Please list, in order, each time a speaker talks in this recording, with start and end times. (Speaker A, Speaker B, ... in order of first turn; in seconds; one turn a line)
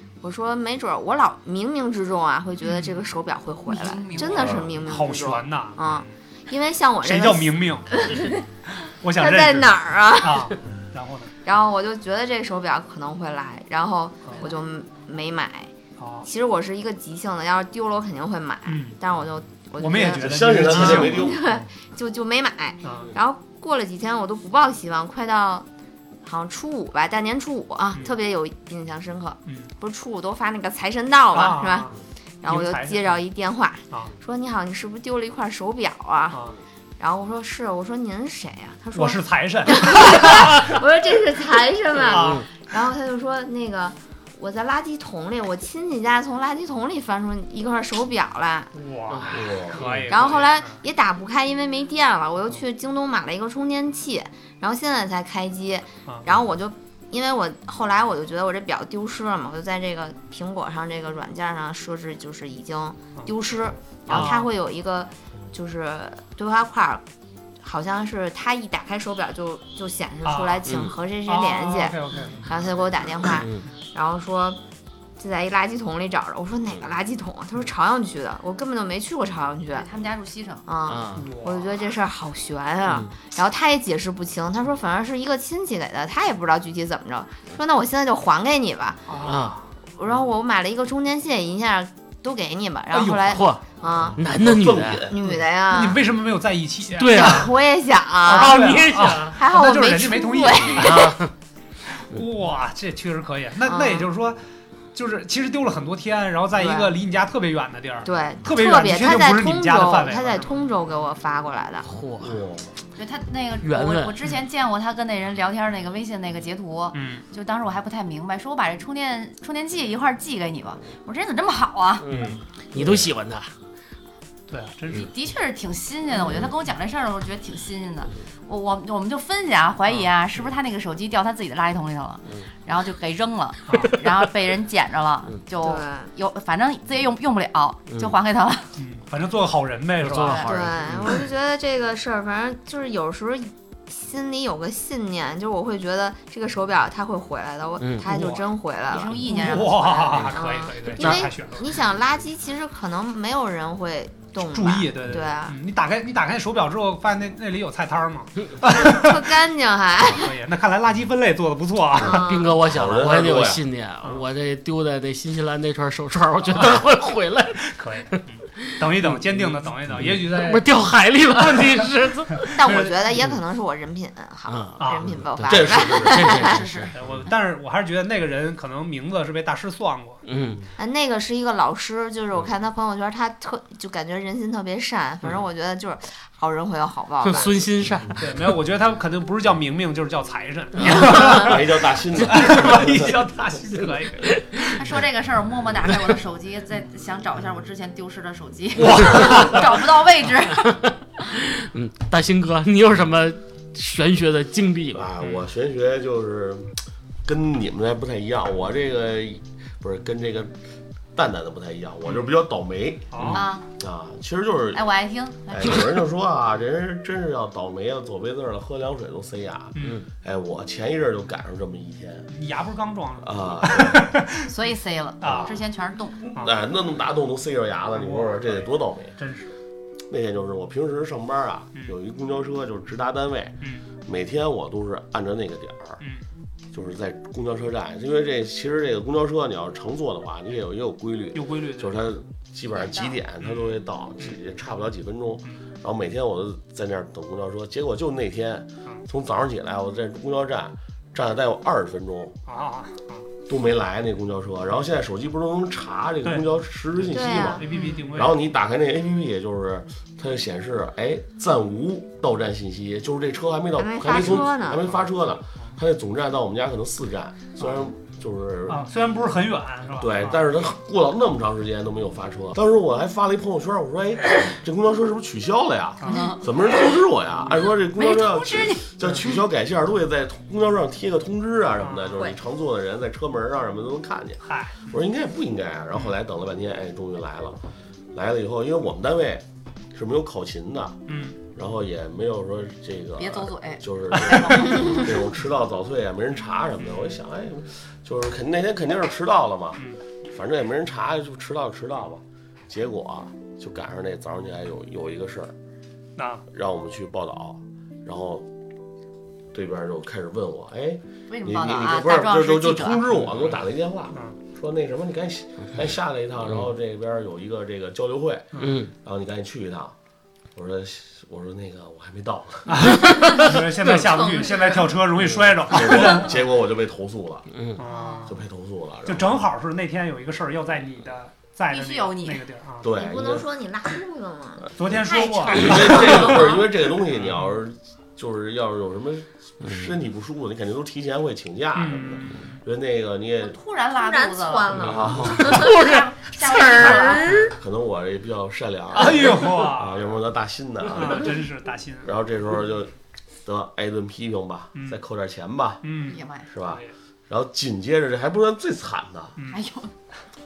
Speaker A: 0.2-8.4
Speaker B: 3.7-4.6
Speaker C: 4.3-4.7
Speaker D: 4.8-6.1
Speaker D: 7.0-11.3
Speaker A: 9.2-10.6
Speaker A: 11.4-25.7
Speaker D: 16.0-16.3
Speaker D: 18.7-19.0
Speaker D: 19.8-21.6
Speaker C: 20.2-21.5
Speaker D: 22.8-23.1
Speaker A: 26.2-31.9
Speaker D: 31.3-33.1
Speaker A: 32.4-36.4
Speaker D: 36.3-36.6
Speaker A: 37.0-48.7
Speaker D: 39.0-40.8
Speaker D: 42.0-42.5
Speaker E: 42.1-42.5
Speaker D: 48.8-50.8
Speaker E: 49.1-50.2
Speaker C: 49.3-49.9
Speaker A: 50.1-67.0
Speaker E: 64.1-64.3
Speaker D: 64.1-64.5
Speaker A: 67.6-74.6
Speaker D: 70.3-70.7
Speaker E: 70.7-70.9
Speaker D: 71.2-72.5
Speaker E: 73.4-73.7
Speaker A: 75.2-79.9
Speaker B: 79.7-80.7
Speaker A: 80.7-89.3
Speaker E: 80.9-81.3
Speaker D: 81.2-81.7
Speaker D: 89.1-89.6
Speaker E: 89.2-89.6
Speaker A: 90.0-94.2
Speaker D: 92.9-93.4
Speaker E: 93.3-93.6
Speaker E: 94.2-95.2
Speaker C: 94.2-95.2
Speaker A: 95.1-96.0
Speaker D: 95.7-97.4
Speaker E: 97.0-97.5
Speaker A: 97.1-98.6
Speaker D: 98.3-101.1
Speaker E: 98.3-99.4
Speaker A: 99.3-101.2
Speaker E: 100.7-101.3
Speaker D: 101.9-104.4
Speaker A: 103.7-104.1
Speaker D: 104.9-110.6
Speaker A: 106.6-106.9
Speaker A: 108.0-111.9
Speaker E: 111.8-112.4
Speaker C: 112.2-112.7
Speaker B: 113.0-122.1
Speaker E: 113.6-114.2
Speaker D: 116.9-117.2
Speaker E: 122.0-123.5
Speaker D: 122.1-122.4
Speaker C: 122.8-123.1
Speaker D: 124.5-125.1
Speaker B: 124.9-138.7
Speaker D: 133.7-133.9
Speaker A: 135.6-136.1
Speaker D: 138.8-140.5
Speaker E: 140.0-141.2
Speaker B: 140.2-140.5
Speaker A: 140.5-149.6
Speaker E: 147.8-148.1
Speaker D: 148.0-148.5
Speaker B: 148.9-150.3
Speaker D: 149.3-151.7
Speaker A: 150.3-155.6
Speaker E: 151.0-151.3
Speaker D: 154.5-159.3
Speaker A: 158.7-160.3
Speaker D: 160.1-162.2
Speaker A: 162.0-162.6
Speaker E: 162.0-172.6
Speaker C: 162.6-163.6
Speaker D: 167.6-170.7
Speaker D: 171.3-171.9
Speaker D: 172.4-172.9
Speaker A: 172.6-176.6
Speaker E: 174.5-176.9
Speaker D: 174.8-175.1
Speaker C: 175.4-176.4
Speaker B: 176.3-176.9
Speaker D: 176.9-180.2
Speaker E: 180.2-180.7
Speaker A: 180.8-187.5
Speaker E: 187.2-188.2
Speaker D: 188.2-191.7
Speaker C: 190.8-193.2
Speaker D: 192.2-194.8
Speaker E: 194.2-194.7
Speaker B: 194.8-200.8
Speaker D: 198.8-199.7
Speaker E: 198.9-199.4
Speaker E: 200.7-205.1
Speaker C: 204.9-206.7
Speaker C: 207.2-210.5
Speaker C: 211.2-214.8
Speaker D: 213.1-213.4
Speaker B: 213.3-213.7
Speaker B: 214.7-215.9
Speaker C: 215.5-222.3
Speaker D: 219.8-220.0
Speaker D: 222.3-224.5
Speaker C: 223.2-224.1
Speaker B: 224.4-226.2
Speaker D: 225.2-225.5
Speaker C: 225.2-225.6
Speaker C: 226.4-229.2
Speaker D: 227.9-229.5
Speaker C: 230.1-236.0
Speaker C: 236.7-252.4
Speaker D: 241.3-242.0
Speaker B: 242.7-243.2
Speaker D: 243.4-244.3
Speaker D: 252.5-253.2
Speaker C: 253.5-268.8
Speaker D: 257.0-258.4
Speaker A: 257.1-257.7
Speaker B: 257.7-258.0
Speaker A: 263.8-264.9
Speaker D: 268.7-270.4
Speaker C: 270.0-287.6
Speaker D: 276.0-276.3
Speaker B: 276.0-276.5
Speaker B: 278.0-278.9
Speaker D: 281.8-282.2
Speaker D: 284.4-284.9
Speaker C: 288.1-305.5
Speaker D: 291.1-291.4
Speaker B: 293.2-295.1
Speaker D: 294.3-294.8
Speaker D: 306.2-306.4
Speaker C: 306.5-308.5
Speaker C: 309.5-319.9
Speaker B: 311.3-313.0
Speaker D: 318.5-318.8
Speaker E: 318.6-318.9
Speaker C: 320.6-322.9
Speaker D: 322.7-326.4
Speaker C: 325.7-327.5
Speaker E: 327.5-327.8
Speaker D: 327.8-328.4
Speaker B: 327.8-328.4
Speaker C: 328.3-329.4
Speaker D: 329.1-332.9
Speaker B: 331.7-332.4
Speaker C: 332.8-333.4
Speaker A: 332.9-334.7
Speaker D: 334.8-336.4
Speaker B: 335.1-336.0
Speaker C: 335.5-343.6
Speaker D: 341.8-342.6
Speaker B: 343.4-347.4
Speaker A: 343.9-345.8
Speaker E: 344.8-347.5
Speaker C: 344.8-345.7
Speaker A: 346.5-347.4
Speaker C: 347.5-351.4
Speaker D: 348.9-350.0
Speaker D: 350.9-352.1
Speaker C: 352.0-352.9
Speaker C: 353.4-355.9
Speaker D: 354.8-355.0
Speaker D: 355.8-356.9
Speaker B: 356.0-356.5
Speaker C: 356.5-359.4
Speaker B: 359.5-359.9